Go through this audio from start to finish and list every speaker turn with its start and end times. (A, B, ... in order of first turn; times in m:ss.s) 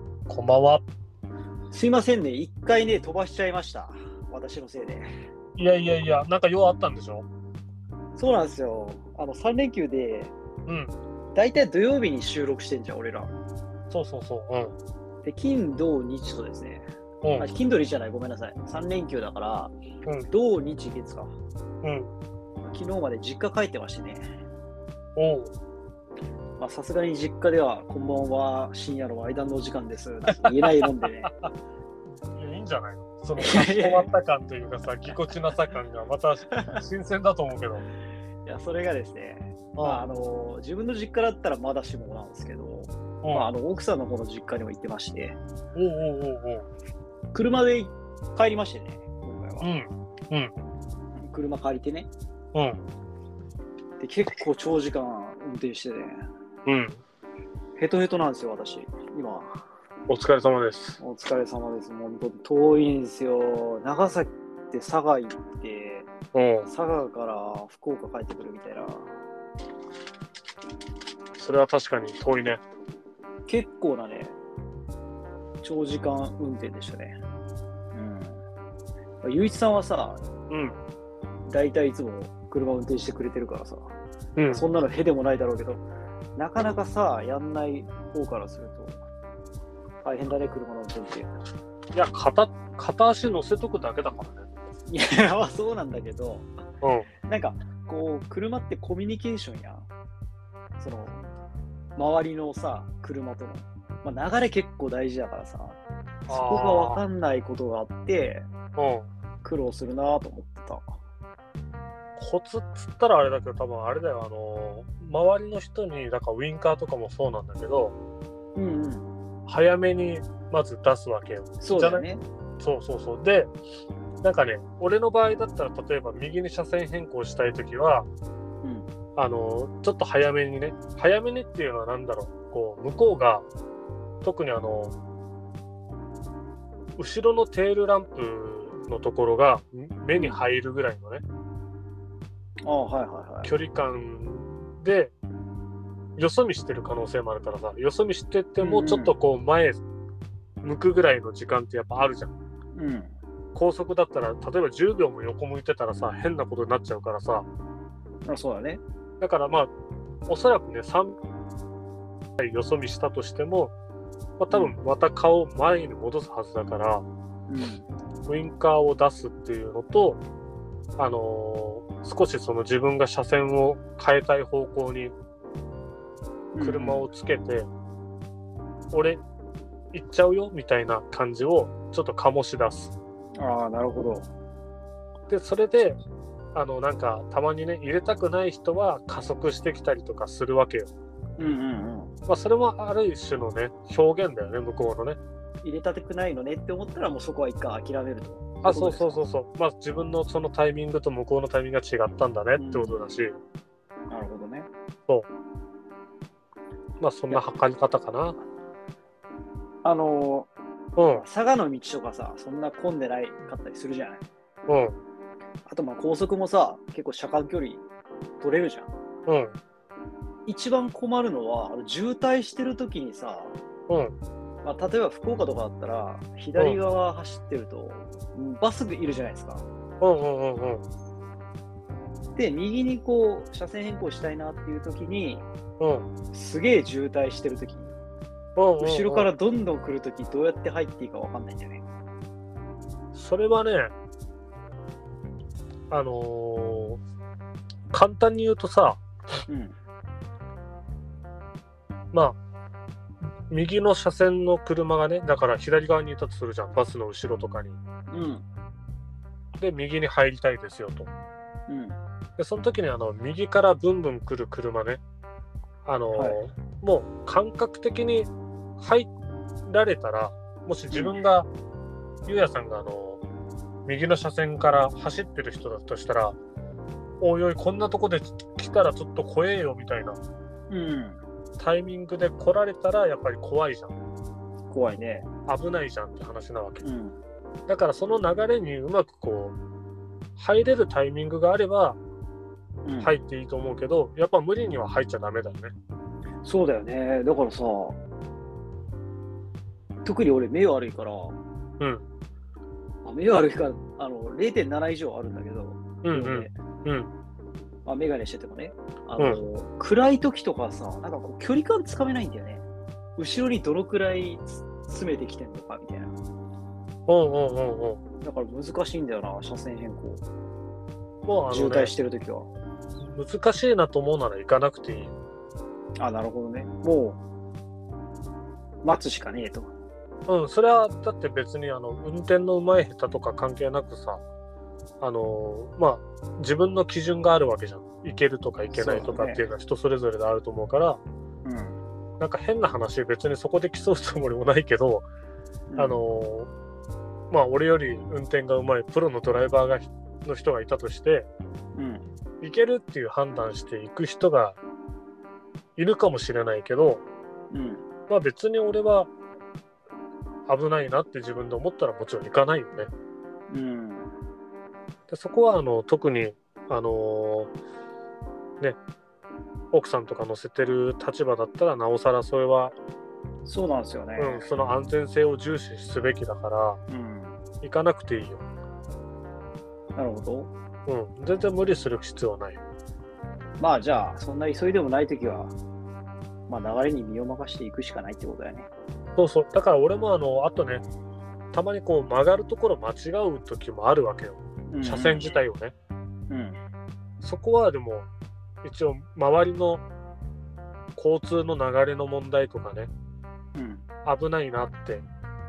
0:00.3-0:00.8 A
0:01.7-0:05.1 B
0:05.6-0:07.3 A
0:08.2-0:10.3 B
0:10.7-0:10.9 A
0:11.3-0:13.3 B
0:13.9-0:14.8 A
0:15.2-0:19.8 B
0:17.2-0:17.5 A
0:20.3-0:21.4 B
0:21.8-0:22.1 A
0:22.6-0:24.2 B
0:25.2-0:25.5 A
0:26.6-0:31.3 B
0:30.4-0:31.5 A
0:32.3-0:37.8 A
0:33.4-0:34.1 B
0:36.5-0:36.8 B
0:38.5-0:45.4 B
0:39.8-0:40.0 A
0:43.2-0:43.5 A
0:45.8-0:46.7 A
0:47.3-0:49.7 B
0:49.6-0:50.5 A
0:51.2-0:52.1 B
0:52.5-0:52.8 A
0:54.0-0:56.2 B
0:56.6-0:57.0 A
0:57.8-0:59.6 B
1:00.1-1:01.0 A
1:01.0-1:06.1 B
1:06.3-1:06.7 A
1:06.7-1:09.2 B
1:11.4-1:12.6 A
1:13.5-1:14.4 B
1:15.6-1:17.2 B
1:17.9-1:18.4 B
1:19.2-1:20.3 B
1:20.5-1:20.8 A
1:21.5-1:23.9 B
1:24.4-1:24.6 A
1:24.5-1:25.8 B
1:26.4-1:29.0 B
1:30.0-1:31.4 B
1:31.9-1:34.5 A
1:34.9-1:36.5 B
1:36.8-1:37.1 A
1:37.3-1:39.9 B
1:40.8-1:41.3 B
1:42.0-1:48.5 B
1:46.3-1:47.0 A
1:48.8-1:49.1 A
1:49.4-1:51.0 B
1:52.2-1:57.9 A
1:58.6-1:59.1 B
1:59.5-2:02.0 A
2:01.6-2:02.2 B
2:02.6-2:03.5 A
2:04.2-2:08.1 A
2:08.6-2:08.9 B
2:09.2-2:13.4 A
2:14.2-2:15.0 A
2:17.0-2:21.2 A
2:20.1-2:20.4 B
2:22.6-2:23.5 B
2:23.4-2:25.1 A
2:26.2-2:29.8 A
2:28.6-2:29.2 B
2:30.6-2:32.4 A
2:32.8-2:33.1 B
2:33.5-2:37.5 A
2:38.2-2:38.8 B
2:39.2-2:39.7 A
2:40.3-2:41.2 A
2:42.4-2:43.7 A
2:44.4-2:47.0 A
2:47.5-2:47.9 B
2:48.3-2:50.2 A
2:51.0-2:55.1 A
2:56.5-2:57.1 B
2:56.6-2:57.7 A
2:58.9-2:59.2 A
2:59.9-3:02.9 A
3:03.4-3:04.3 B
3:05.3-3:06.0 A
3:06.5-3:10.9 A
3:11.4-3:12.1 B
3:12.3-3:15.2 A
3:15.6-3:19.2 B
3:18.6-3:23.4 A
3:22.6-3:23.0 B
3:24.1-3:24.7 B
3:27.0-3:28.4 A
3:29.8-3:30.5 B
3:31.0-3:31.2 A
3:31.1-3:34.2 B
3:34.7-3:35.0 A
3:35.7-3:37.8 B
3:38.4-3:38.9 B
3:39.3-3:39.6 A
3:40.5-3:43.6 B
3:43.9-3:44.2 A
3:44.6-3:49.6 B
3:50.0-3:50.8 A
3:52.4-3:55.5 B
3:55.8-3:56.1 A
3:56.3-3:58.0 B
3:58.6-3:59.3 A
3:58.8-4:01.8 B
4:03.1-4:03.9 A
4:05.9-4:07.0 A
4:07.9-4:09.0 A
4:09.5-4:09.8 B
4:12.1-4:12.4 A
4:13.5-4:17.8 A
4:18.1-4:18.4 B
4:19.6-4:21.1 A
4:21.7-4:22.0 B
4:22.4-4:25.0 A
4:25.8-4:29.1 A
4:26.1-4:26.4 B
4:29.7-4:31.5 A
4:30.9-4:31.2 B
4:32.3-4:33.2 A
4:33.9-4:36.4 A
4:37.2-4:40.2 A
4:40.7-4:41.2 B
4:41.6-4:44.0 A
4:44.7-4:45.3 B
4:45.5-4:46.8 A
4:46.8-4:47.2 B
4:47.7-4:49.6 A
4:50.4-4:52.0 A
4:52.8-4:53.2 B
4:53.0-4:55.7 A
4:56.4-4:58.0 B
5:00.0-5:01.4 B
5:03.0-5:06.5 B
5:06.0-5:07.1 A
5:07.8-5:12.6 B
5:13.2-5:16.1 B
5:17.1-5:18.0 A
5:18.2-5:20.2 B
5:21.3-5:21.9 A
5:21.5-5:22.5 B
5:23.0-5:25.2 A
5:26.0-5:27.2 B
5:28.8-5:29.7 B
5:30.3-5:34.2 A
5:35.0-5:41.0 A
5:38.7-5:39.4 B
5:41.4-5:41.8 B
5:42.2-5:45.0 A
5:45.7-5:46.0 B
5:45.8-5:46.5 A
5:47.3-5:51.3 A
5:51.8-5:52.1 B
5:52.4-5:54.6 A
5:55.8-5:57.0 A
5:57.5-5:57.8 B
5:58.1-5:59.1 A
6:00.5-6:02.9 A
6:03.5-6:04.1 B
6:05.1-6:07.5 A
6:09.7-6:12.8 A
6:13.4-6:14.5 B
6:14.2-6:16.8 A
6:16.9-6:17.4 B
6:17.6-6:18.4 A
6:20.0-6:20.5 B
6:20.9-6:22.6 A
6:23.6-6:25.5 B
6:26.5-6:28.7 B
6:29.2-6:30.8 A
6:31.5-6:35.7 A
6:34.7-6:35.3 B
6:36.3-6:36.6 B
6:37.2-6:38.1 A
6:38.6-6:39.8 A
6:41.0-6:42.9 A
6:43.6-6:43.8 B
6:44.0-6:45.0 A